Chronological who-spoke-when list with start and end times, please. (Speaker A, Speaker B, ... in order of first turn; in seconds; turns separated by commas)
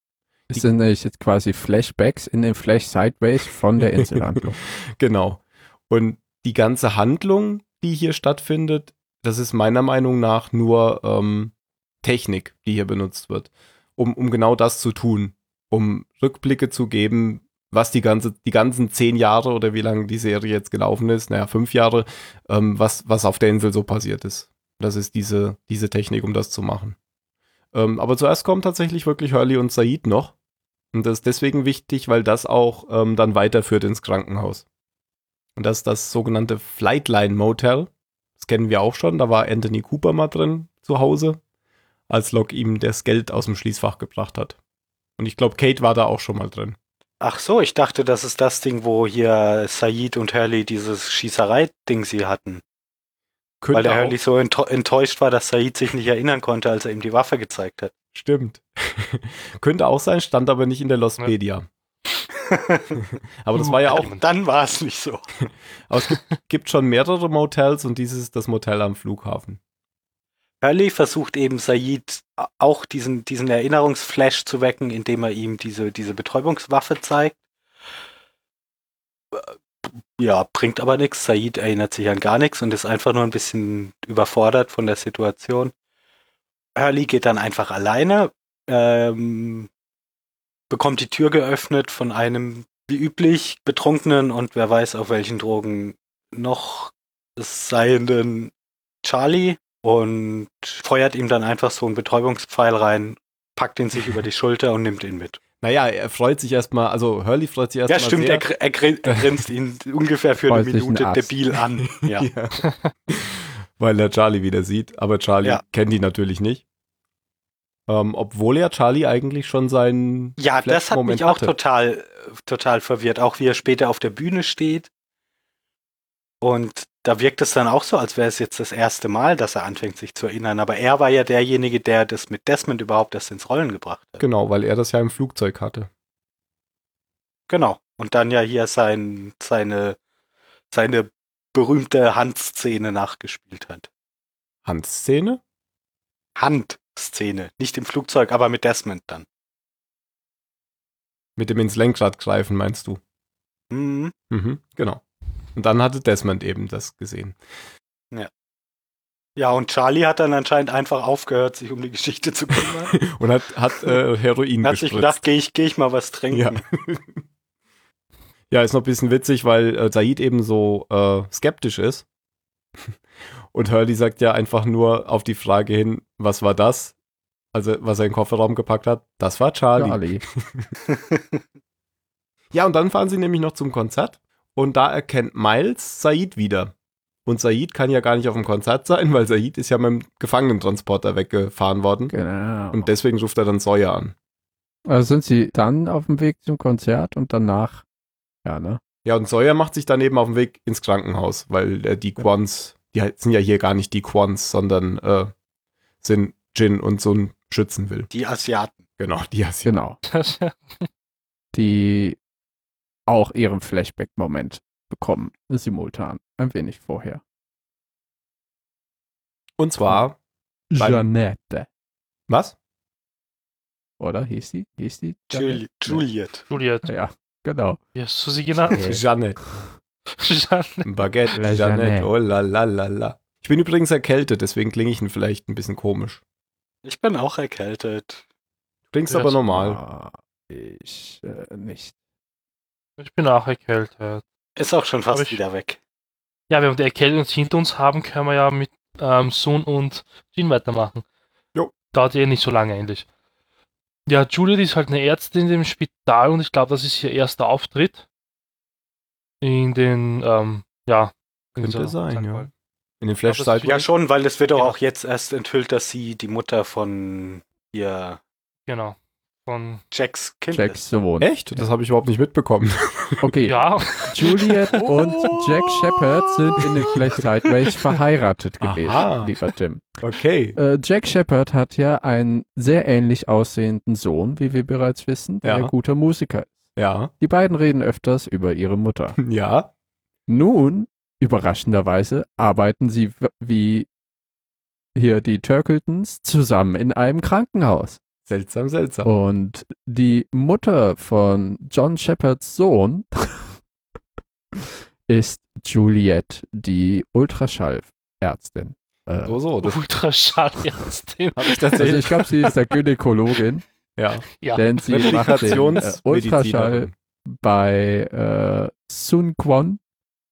Speaker A: 0.5-4.6, Speaker B: 3.9-26.9, Speaker B: 27.7-30.3, Speaker B: 30.9-34.6, Speaker B: 35.5-41.4, Speaker B: 42.1-44.6, Speaker B: 45.2-46.8, Speaker C: 47.2-52.6, Speaker B: 53.6-54.1, Speaker C: 53.7-57.9, Speaker B: 58.1-61.6, Speaker C: 62.3-63.0, Speaker B: 63.4-64.1, Speaker D: 63.6-64.2, Speaker C: 63.9-65.2, Speaker B: 65.9-69.6, Speaker C: 70.6-77.4, Speaker C: 79.3-85.7, Speaker C: 86.8-89.7, Speaker C: 90.7-98.5, Speaker C: 99.0-105.4, Speaker B: 105.6-108.5, Speaker C: 107.9-112.3, Speaker B: 109.0-109.3, Speaker A: 110.5-111.3, Speaker B: 111.8-116.6, Speaker B: 117.9-121.5, Speaker C: 120.4-124.9, Speaker C: 126.4-134.2, Speaker B: 134.2-135.9, Speaker C: 137.5-140.0, Speaker C: 140.7-143.9, Speaker B: 144.6-145.4, Speaker C: 146.4-149.2, Speaker B: 151.4-153.0, Speaker C: 153.7-154.1, Speaker B: 154.3-155.0, Speaker B: 155.5-157.4, Speaker C: 159.3-163.0, Speaker B: 163.0-165.2, Speaker C: 164.6-166.6, Speaker B: 166.3-167.2, Speaker B: 168.5-172.0, Speaker B: 173.5-176.9, Speaker B: 177.5-180.7, Speaker A: 179.8-180.2, Speaker B: 182.5-186.7, Speaker B: 187.2-192.1, Speaker A: 192.1-192.9, Speaker B: 192.7-194.1, Speaker A: 194.8-197.8, Speaker A: 198.4-198.8, Speaker B: 199.0-205.3, Speaker B: 206.0-208.1, Speaker C: 208.1-208.8, Speaker B: 209.0-209.8, Speaker A: 209.7-210.0, Speaker D: 210.1-210.9, Speaker A: 211.5-212.2, Speaker A: 213.1-217.2, Speaker B: 219.6-220.2, Speaker A: 220.7-221.7, Speaker B: 220.8-221.1, Speaker B: 222.3-222.5, Speaker A: 224.0-226.0, Speaker C: 225.3-226.5, Speaker D: 226.5-226.9, Speaker A: 226.8-227.8, Speaker D: 227.9-229.0, Speaker A: 228.7-229.0, Speaker B: 228.7-229.4, Speaker D: 230.1-230.9, Speaker B: 230.8-236.2, Speaker A: 231.3-232.1, Speaker C: 236.8-238.2, Speaker B: 238.9-239.8, Speaker D: 239.1-239.3, Speaker A: 239.5-241.9, Speaker D: 243.0-244.2, Speaker C: 244.6-245.8, Speaker D: 245.1-245.4, Speaker D: 246.5-251.0, Speaker D: 251.9-253.1, Speaker D: 254.1-258.0, Speaker D: 259.4-262.5, Speaker B: 261.6-262.5, Speaker B: 263.0-263.8, Speaker D: 263.2-263.9, Speaker C: 263.6-268.2, Speaker D: 268.7-269.8, Speaker C: 269.9-270.8, Speaker A: 270.5-271.6, Speaker B: 271.2-273.3, Speaker A: 273.2-280.0, Speaker D: 273.4-274.8, Speaker B: 274.8-276.0, Speaker B: 276.6-277.0, Speaker B: 278.6-279.3, Speaker B: 280.0-280.6, Speaker A: 280.6-289.2, Speaker B: 285.4-285.7, Speaker B: 286.8-287.1, Speaker B: 289.2-289.7, Speaker A: 290.3-293.9, Speaker A: 294.9-298.0, Speaker B: 298.2-299.1, Speaker A: 299.0-303.5, Speaker A: 304.5-309.4, Speaker B: 309.2-309.8, Speaker D: 309.6-312.5, Speaker B: 311.4-312.3, Speaker A: 311.8-313.6, Speaker B: 314.0-314.2, Speaker D: 314.4-315.8, Speaker A: 314.5-319.8, Speaker B: 314.9-316.9